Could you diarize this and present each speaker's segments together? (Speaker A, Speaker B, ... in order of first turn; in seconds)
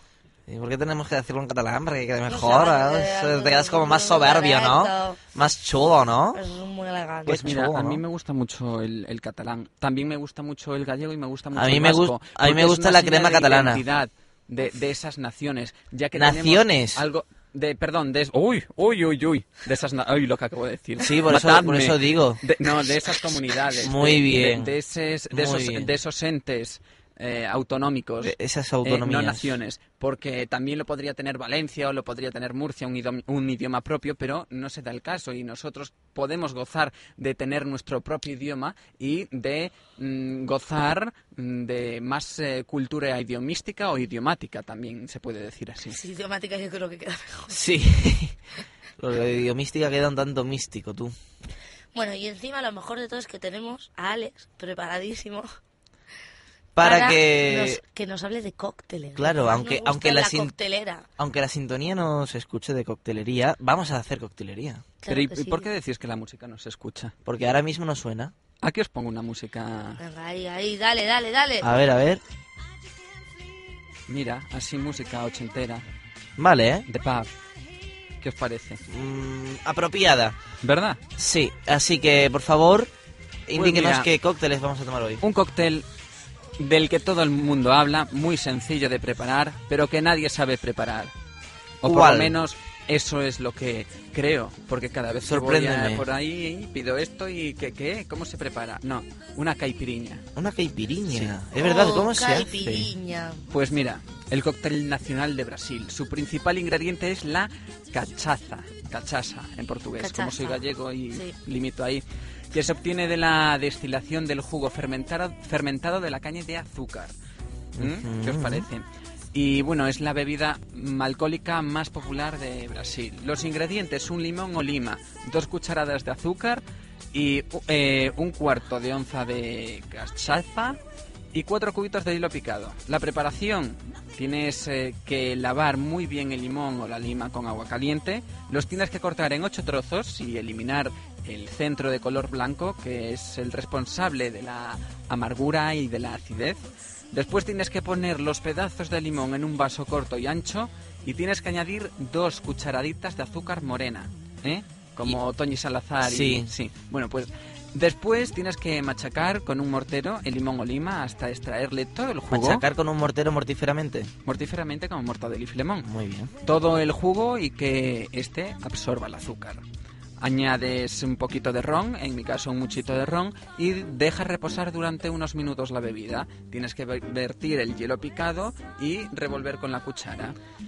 Speaker A: 0.5-6.4, 7.2-8.0, 11.5-13.8, 16.1-17.0, 21.0-22.4, 23.8-24.7, 25.3-25.9, 28.2-29.6, 47.5-48.4, 49.0-51.1, 56.7-57.8, 59.1-60.5, 61.2-64.9, 67.2-68.3, 71.6-72.2, 76.4-76.8, 78.9-80.4, 81.2-82.9, 83.5-85.2, 91.8-92.3, 95.2-96.0, 100.3-102.9, 117.8-118.7, 156.0-156.5, 162.3-164.1, 165.8-166.3
Speaker B: 2.3-5.2, 6.3-7.5, 45.9-47.6, 51.9-55.5, 56.8-61.1, 65.0-65.7, 70.0-71.7, 101.6-103.4, 110.0-110.6
Speaker C: 7.3-46.0, 65.1-67.1, 68.6-70.0, 74.1-75.8, 76.9-77.3, 78.2-78.8, 80.6-81.0, 83.5-84.1, 85.2-85.8, 86.6-91.1, 91.8-100.2, 101.1-101.3, 103.5-117.1, 117.8-130.8, 131.3-146.6, 147.1-162.6, 164.2-165.9, 166.4-169.6, 170.2-180.3